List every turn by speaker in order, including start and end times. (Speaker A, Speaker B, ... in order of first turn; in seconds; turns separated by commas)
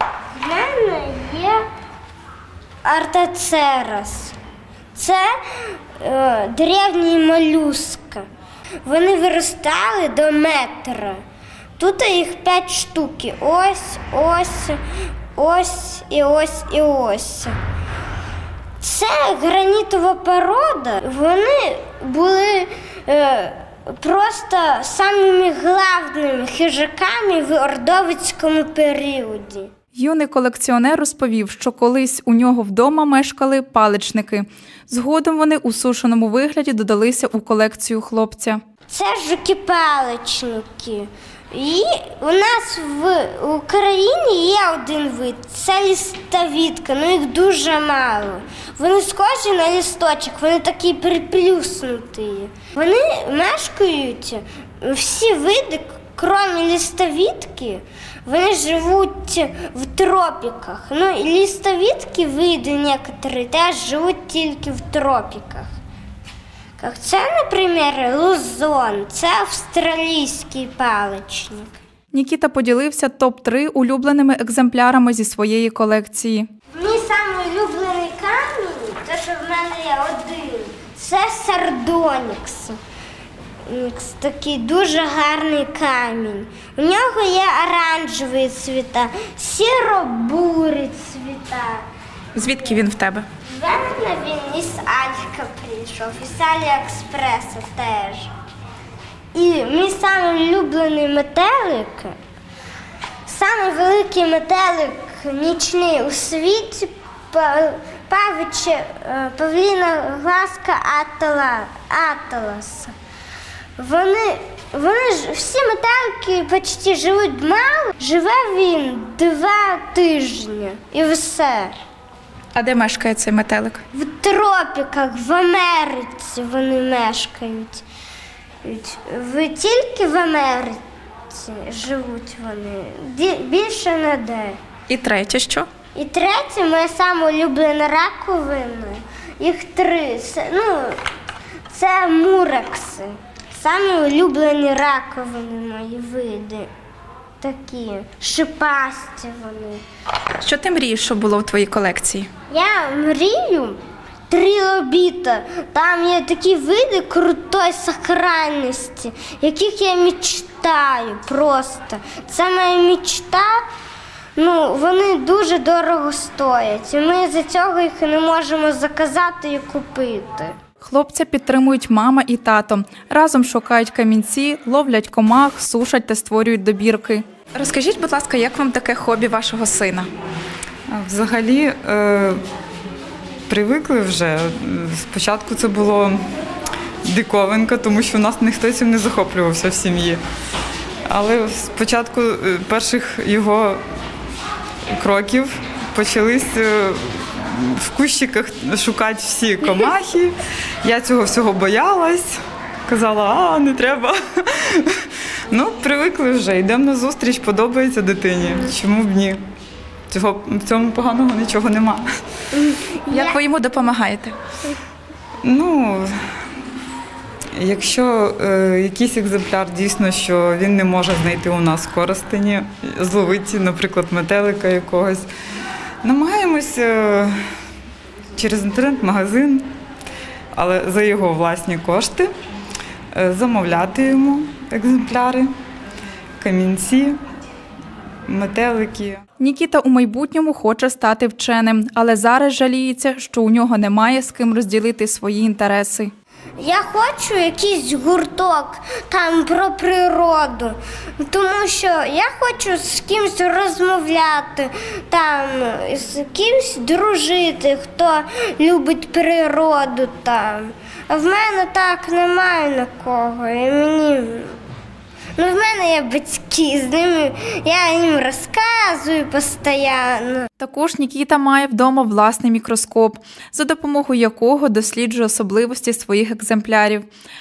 Speaker A: 0.4-1.6, Speaker A: 2.8-4.3, Speaker A: 5.0-8.2, Speaker A: 8.8-11.2, Speaker A: 11.8-14.8, Speaker A: 15.4-17.6, Speaker A: 18.8-29.7, Speaker B: 29.9-38.6, Speaker A: 38.9-65.7, Speaker A: 66.8-71.7, Speaker B: 72.1-76.5, Speaker A: 76.7-82.8, Speaker A: 83.7-91.8, Speaker B: 92.3-93.3, Speaker A: 93.5-98.3, Speaker A: 99.3-102.2, Speaker A: 103.3-112.9, Speaker A: 113.8-121.8, Speaker B: 122.5-123.8, Speaker A: 123.9-127.8, Speaker A: 128.6-134.6, Speaker B: 134.9-135.7, Speaker A: 135.9-141.0, Speaker A: 141.7-146.7, Speaker A: 147.4-149.8, Speaker B: 150.3-152.3, Speaker A: 152.5-153.8, Speaker A: 154.3-163.6, Speaker A: 164.4-170.6, Speaker B: 170.8-180.1, Speaker C: 180.9-182.4, Speaker C: 183.5-186.2, Speaker C: 187.1-190.2, Speaker C: 191.1-193.8, Speaker C: 195.0-200.3, Speaker C: 200.8-209.4, Speaker C: 210.1-212.1, Speaker A: 212.5-213.4, Speaker B: 213.1-214.3, Speaker C: 215.4-216.1, Speaker C: 217.6-225.3, Speaker C: 226.0-227.4, Speaker C: 228.4-229.7, Speaker C: 230.6-232.3, Speaker C: 233.1-235.5, Speaker C: 236.4-237.2, Speaker C: 238.3-239.2, Speaker B: 239.4-246.1, Speaker A: 246.6-264.6, Speaker A: 265.4-270.5, Speaker B: 270.6-277.1